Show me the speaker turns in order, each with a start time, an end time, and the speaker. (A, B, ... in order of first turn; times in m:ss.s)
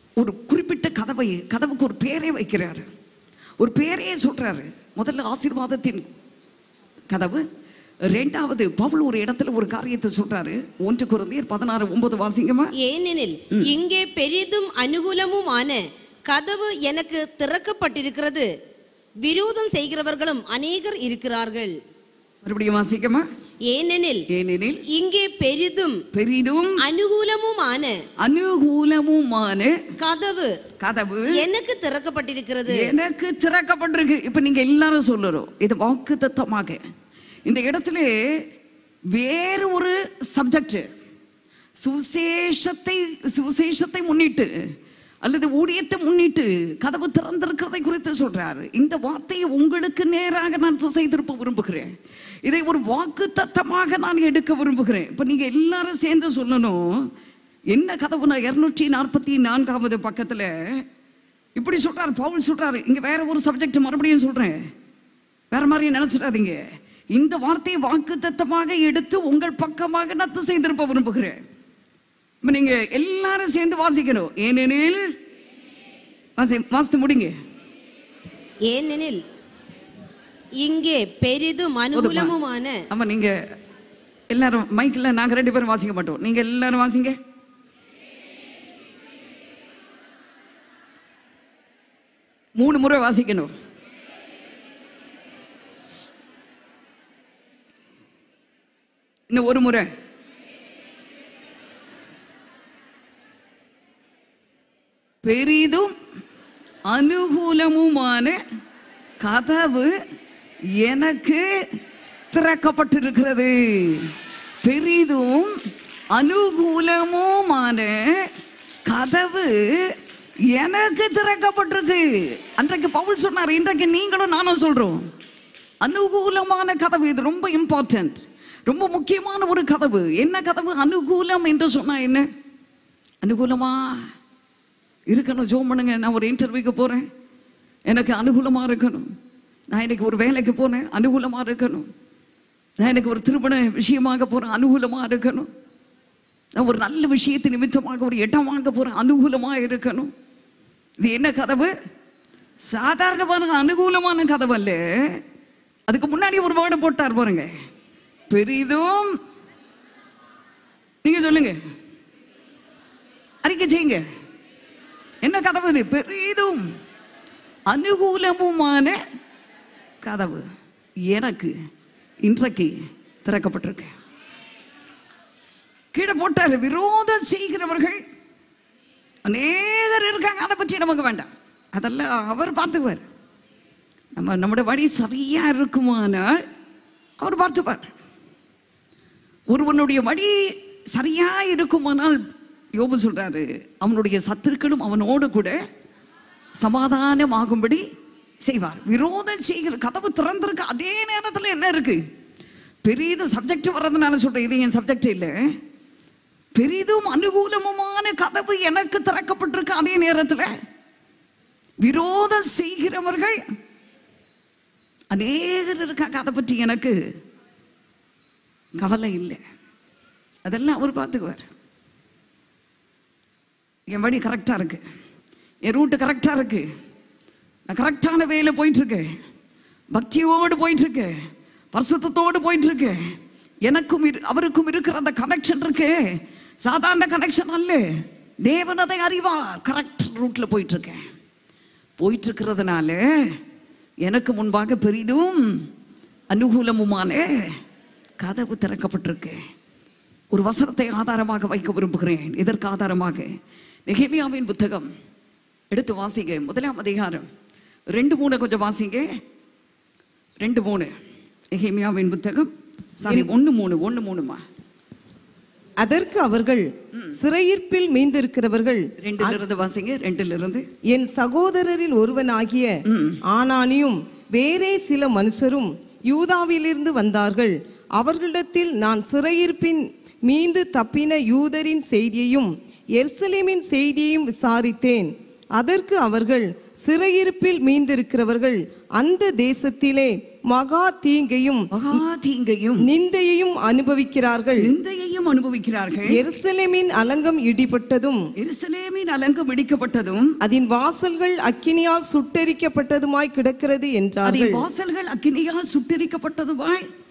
0:00.2-0:02.9 A
0:03.6-0:06.0 A
0:07.1-0:07.4 A
0:08.1-0:12.7 A
0:12.8-0:18.5 B
0:19.2-0:21.7 B
0:22.4-0:23.2 A
0:23.7-0:24.2 B
0:24.3-0:24.8 A
0:24.9-0:26.0 B
0:26.1-0:26.8 A
0:26.8-0:28.0 B
0:28.2-0:29.8 A
0:30.0-0:30.5 B
0:30.8-0:31.5 A
0:31.4-0:32.9 B
0:32.7-0:36.8 A
0:37.5-0:38.1 A
0:39.1-0:40.8 A
0:41.8-0:44.5 A
0:45.2-0:51.9 A
0:52.4-0:57.1 A
0:57.7-1:00.5 A
1:01.6-1:04.6 A
1:05.5-1:06.6 A
1:07.1-1:11.4 A
1:12.4-1:15.1 A
1:16.4-1:17.3 A
1:18.7-1:19.2 B
1:20.6-1:22.8 B
1:21.9-1:22.3 A
1:22.9-1:23.3 A
1:24.3-1:27.2 A
1:32.6-1:33.5 A
1:39.3-1:39.9 A
1:45.2-1:45.9 A
1:46.9-1:48.4 A
1:49.2-1:49.9 A
1:50.8-1:51.5 A
1:52.3-1:54.1 A
1:54.6-1:55.5 A
1:56.1-1:58.3 A
1:58.9-1:59.9 A
2:00.5-2:05.0 A
2:05.8-2:12.3 A
2:13.2-2:14.0 A
2:15.1-2:17.0 A
2:17.9-2:19.1 A
2:19.7-2:21.9 A
2:22.8-2:25.5 A
2:26.6-2:30.1 A
2:31.0-2:31.7 A
2:32.7-2:35.2 A
2:35.9-2:37.5 A
2:38.3-2:39.1 A
2:41.0-2:41.6 A
2:43.4-2:44.0 A
2:45.2-2:46.6 A
2:47.7-2:49.0 A
2:50.0-2:50.4 A
2:51.1-2:51.5 A
2:52.2-2:52.7 A
2:53.2-2:53.9 A
2:55.9-2:58.0 A
2:59.3-3:03.0 A
3:04.2-3:06.4 A
3:07.2-3:07.9 A
3:09.5-3:12.2 A
3:12.8-3:15.6 A
3:16.6-3:17.8 A
3:18.4-3:22.0 A
3:22.8-3:25.3 A
3:26.6-3:30.5 A
3:31.8-3:33.4 A
3:35.1-3:37.0 A
3:38.8-3:39.4 A
3:40.5-3:41.4 A
3:43.9-3:44.8 A
3:45.6-3:46.6 A
3:47.7-3:49.1 A
3:49.9-3:51.1 A
3:51.7-3:53.0 A
3:53.6-3:56.1 A
3:56.6-3:57.8 A
3:58.4-4:01.0 A
4:02.0-4:03.0 A
4:04.0-4:05.6 A
4:06.3-4:07.5 A
4:08.2-4:09.4 A
4:10.3-4:13.3 A
4:13.9-4:14.9 A
4:15.7-4:17.3 A
4:17.9-4:19.1 A
4:20.4-4:20.9 A
4:21.5-4:24.4 A
4:25.8-4:29.4 C
4:29.0-4:30.6 A
4:30.9-4:51.7 C
4:32.8-4:33.2 A
4:51.7-4:52.9 A
4:52.9-4:54.7 C
4:54.6-4:56.2 A
4:56.1-4:58.2 C
4:58.4-5:00.3 A
5:00.4-5:04.6 C
5:04.2-5:06.8 A